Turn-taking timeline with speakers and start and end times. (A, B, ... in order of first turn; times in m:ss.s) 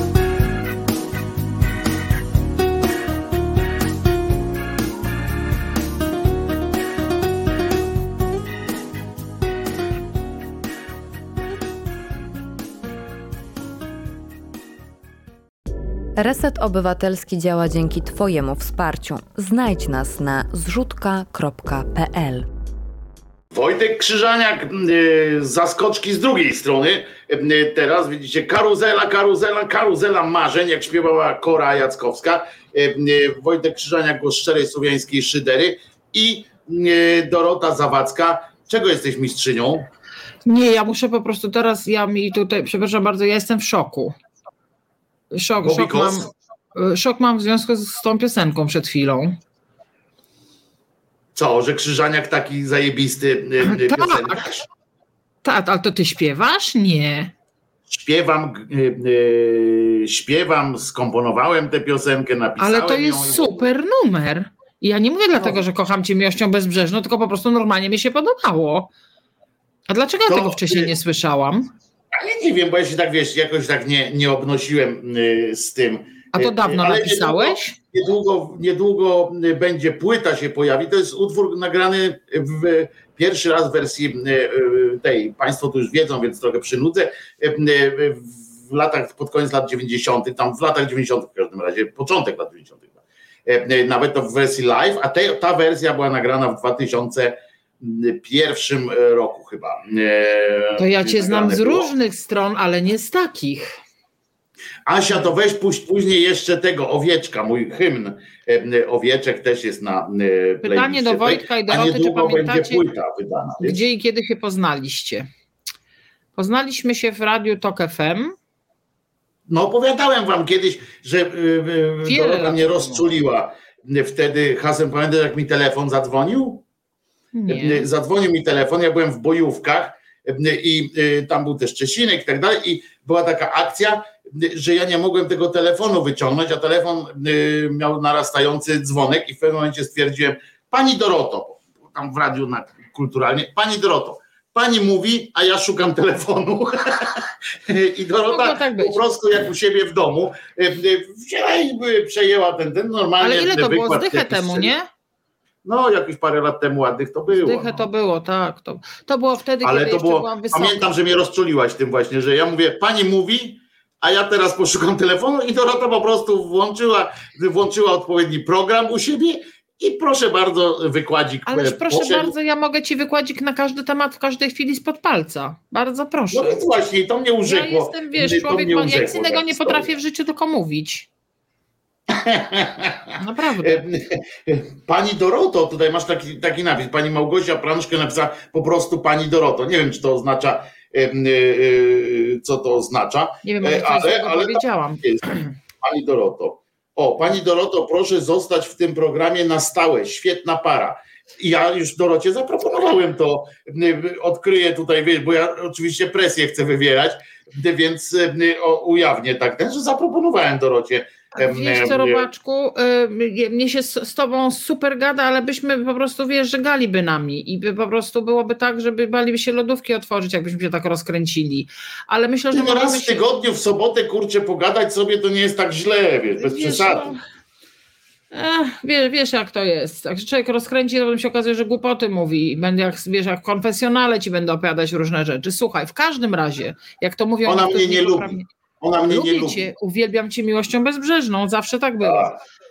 0:16.2-0:22.5 A
0:23.5-0:39.9 B
0:40.5-0:44.2 C
0:45.3-0:49.4 C
0:45.6-0:46.3 B
0:51.4-0:54.7 B
0:53.6-0:54.3 C
0:55.4-0:57.3 C
0:57.9-1:03.6 B
1:02.6-1:08.9 C
1:09.9-1:11.7 C
1:10.3-1:10.9 B
1:12.1-1:41.9 B
1:16.3-1:17.8 C
1:40.8-1:43.8 C
1:44.9-1:53.8 B
1:50.6-1:52.8 C
1:53.6-1:55.3 C
1:56.4-1:58.4 C
1:59.5-2:06.6 B
2:02.0-2:03.0 C
2:07.3-2:07.8 C
2:07.5-2:34.7 B
2:28.3-2:29.0 C
2:33.2-2:34.9 C
2:35.6-2:37.9 B
2:37.3-2:40.9 C
2:39.6-2:52.3 B
2:51.5-2:56.6 C
2:56.3-2:59.9 B
2:57.4-3:01.1 C
3:02.1-3:32.3 B
3:03.2-3:03.8 C
3:13.4-3:15.0 C
3:31.4-3:43.3 C
3:42.5-3:47.2 B
3:46.4-3:47.2 C
3:48.3-3:58.4 C
3:57.4-3:59.6 B
3:59.1-4:02.3 C
4:02.0-4:02.3 B